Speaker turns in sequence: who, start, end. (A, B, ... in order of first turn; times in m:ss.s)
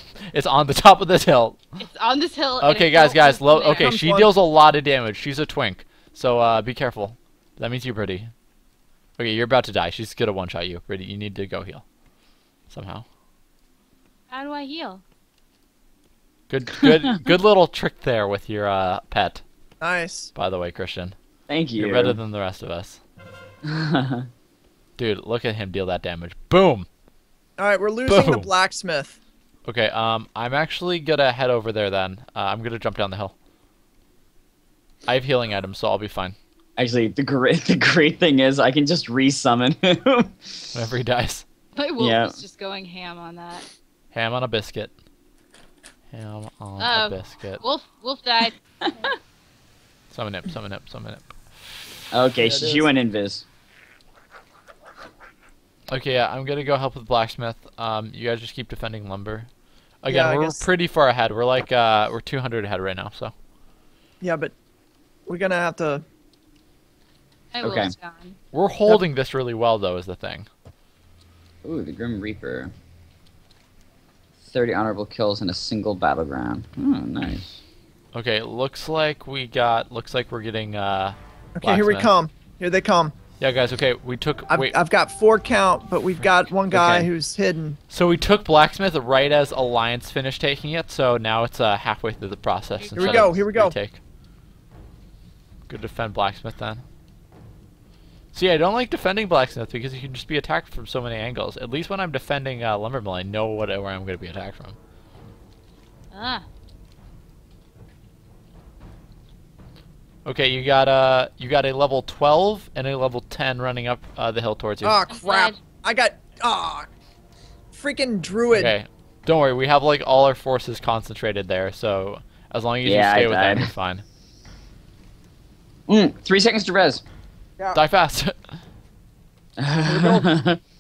0:00.3-0:01.6 A
0:01.8-0:03.9 B
0:02.6-0:08.3 A
0:03.7-0:04.3 C
0:09.2-0:11.8 A
0:12.7-0:13.1 A
0:14.3-0:15.0 B
0:16.5-0:19.4 A
0:19.8-0:20.3 C
0:20.4-0:21.2 A
0:21.5-0:22.2 D
0:21.8-0:23.0 A
0:23.6-0:24.3 D
0:25.0-0:26.9 A
0:27.6-0:29.2 C
0:28.1-0:28.5 A
0:29.6-0:33.3 A
0:35.1-0:36.4 A
0:36.8-0:40.6 D
0:40.7-0:41.4 A
0:41.8-0:43.7 B
0:42.0-0:42.4 D
0:44.1-0:44.9 A
0:46.1-0:47.6 A
0:46.8-0:49.2 B
0:50.1-0:51.8 A
0:52.1-0:53.4 D
0:52.4-0:52.9 C
0:55.9-0:59.5 A
1:00.0-1:03.3 A
1:00.1-1:00.6 C
1:04.2-1:04.5 C
1:05.3-1:06.0 C
1:07.5-1:08.4 B
1:07.6-1:08.0 D
1:08.5-1:10.5 A
1:11.6-1:12.7 D
1:14.4-1:17.6 D
1:18.1-1:22.1 A
1:21.6-1:23.2 C
1:23.4-1:24.8 A
1:24.5-1:27.8 C
1:26.7-1:27.1 D
1:27.9-1:34.0 A
1:32.8-1:33.4 B
1:33.0-1:33.8 C
1:35.7-1:36.8 A
1:38.3-1:44.8 A
1:46.1-1:46.5 B
1:50.2-1:55.0 A
1:54.8-1:56.9 C
1:55.1-1:55.6 B
1:57.7-1:58.8 C
1:58.5-2:04.0 A
2:02.8-2:03.7 D
2:05.9-2:07.0 D
2:07.7-2:08.6 A
2:09.6-2:10.6 D
2:09.8-2:10.3 C